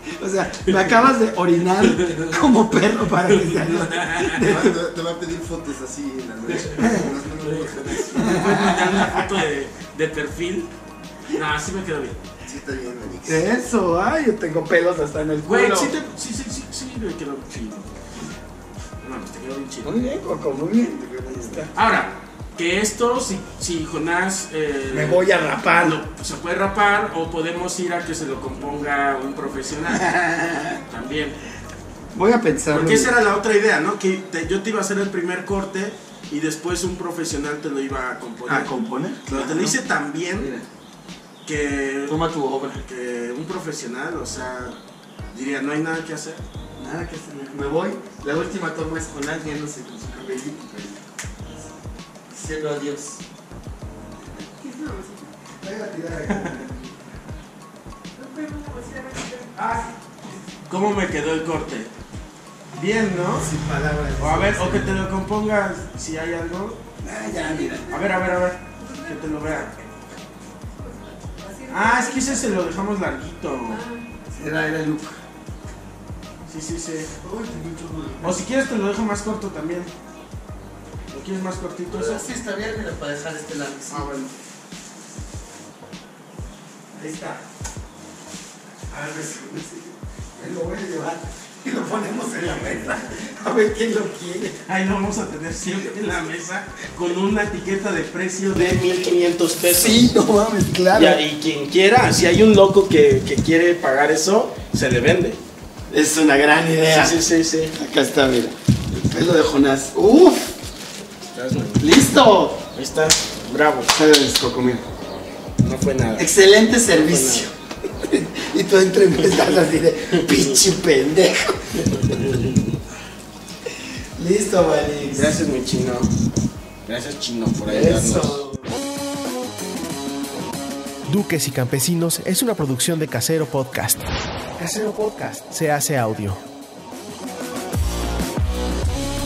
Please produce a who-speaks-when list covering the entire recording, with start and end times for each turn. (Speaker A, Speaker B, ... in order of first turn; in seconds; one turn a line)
Speaker A: 0.2-4.8
Speaker B: 0.6-1.1
Speaker B: 1.8-4.6
Speaker C: 4.4-8.5
Speaker B: 6.5-10.7
Speaker A: 6.8-7.1
Speaker A: 8.1-9.2
Speaker B: 11.3-12.2
Speaker C: 12.4-13.5
Speaker A: 13.2-16.0
Speaker B: 15.4-17.9
Speaker B: 19.0-20.0
Speaker A: 19.8-21.7
Speaker C: 21.0-21.6
Speaker B: 21.7-30.2
Speaker A: 24.9-26.0
Speaker A: 29.9-30.8
Speaker B: 30.9-31.4
Speaker A: 32.1-33.1
Speaker B: 32.7-38.7
Speaker A: 38.5-39.8
Speaker B: 39.3-40.7
Speaker B: 41.5-42.2
Speaker A: 42.1-42.8
Speaker B: 42.7-44.8
Speaker B: 45.3-46.5
Speaker A: 46.8-51.0
Speaker A: 52.3-53.2
Speaker A: 54.2-56.9
Speaker B: 56.3-56.6
Speaker A: 58.1-60.0
Speaker B: 60.7-61.9
Speaker B: 62.7-63.5
Speaker A: 63.3-65.0
Speaker B: 64.2-66.8
Speaker A: 67.0-68.2
Speaker B: 67.9-69.7
Speaker A: 68.8-69.5
Speaker A: 70.7-72.4
Speaker B: 71.7-73.8
Speaker A: 73.8-75.2
Speaker B: 76.5-77.1
Speaker A: 77.2-78.4
Speaker B: 78.2-79.9
Speaker B: 81.1-82.2
Speaker A: 81.9-84.3
Speaker B: 83.9-84.1
Speaker A: 86.9-87.4
Speaker A: 88.9-94.6
Speaker B: 92.4-92.9
Speaker B: 94.7-100.1
Speaker A: 95.6-96.2
Speaker A: 99.6-101.2
Speaker B: 100.9-105.4
Speaker A: 105.9-107.2
Speaker B: 106.9-107.7
Speaker A: 107.7-110.5
Speaker B: 111.3-111.9
Speaker A: 111.8-112.7
Speaker B: 112.7-114.0
Speaker A: 113.9-114.8
Speaker B: 115.6-116.3
Speaker A: 116.2-122.2
Speaker B: 116.9-117.5
Speaker B: 119.2-120.6
Speaker B: 121.9-122.8
Speaker A: 124.2-125.4
Speaker B: 125.1-126.1
Speaker B: 126.8-128.4
Speaker A: 127.6-128.7
Speaker D: 131.1-136.4